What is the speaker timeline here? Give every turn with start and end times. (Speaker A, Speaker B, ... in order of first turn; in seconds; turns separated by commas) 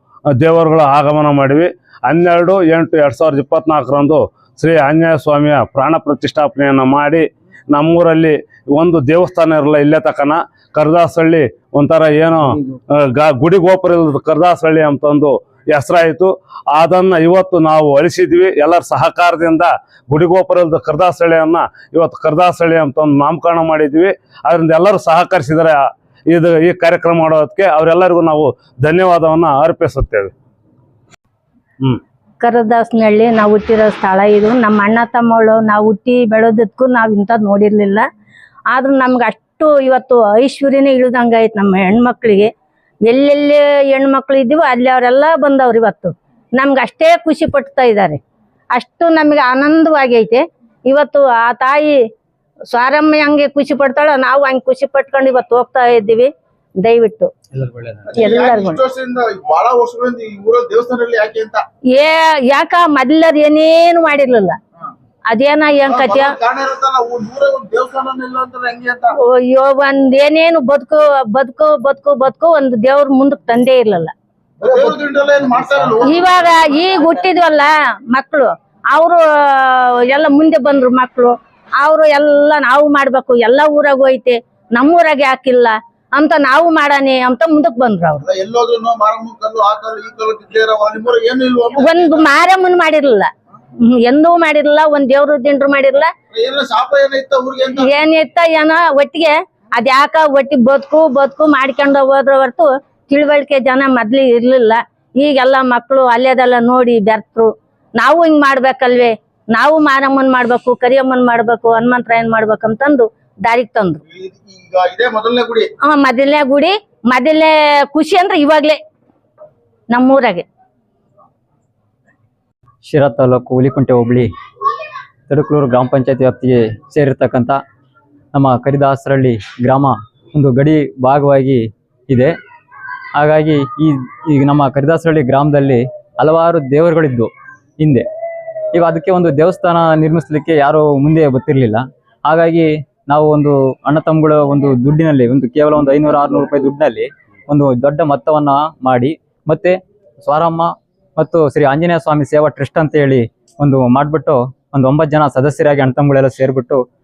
Speaker A: 0.4-30.3, Speaker B: 32.4-38.0, Speaker B: 38.7-42.5, Speaker B: 43.1-48.2, Speaker B: 48.8-52.0, Speaker B: 52.7-56.3, Speaker B: 56.8-57.3, Speaker C: 57.9-61.6, Speaker B: 58.1-58.8, Speaker B: 62.0-64.6, Speaker B: 65.3-66.3, Speaker C: 65.9-69.1, Speaker B: 69.4-74.1, Speaker C: 74.6-77.2, Speaker B: 76.0-88.2, Speaker C: 88.2-92.3, Speaker B: 91.8-93.3, Speaker B: 93.8-96.1, Speaker C: 96.3-98.0, Speaker B: 97.8-114.0, Speaker C: 114.1-115.7, Speaker B: 115.9-118.8, Speaker B: 119.9-120.5, Speaker D: 122.8-124.3, Speaker D: 125.3-127.6, Speaker D: 128.3-132.3, Speaker D: 133.2-138.1, Speaker D: 138.7-156.8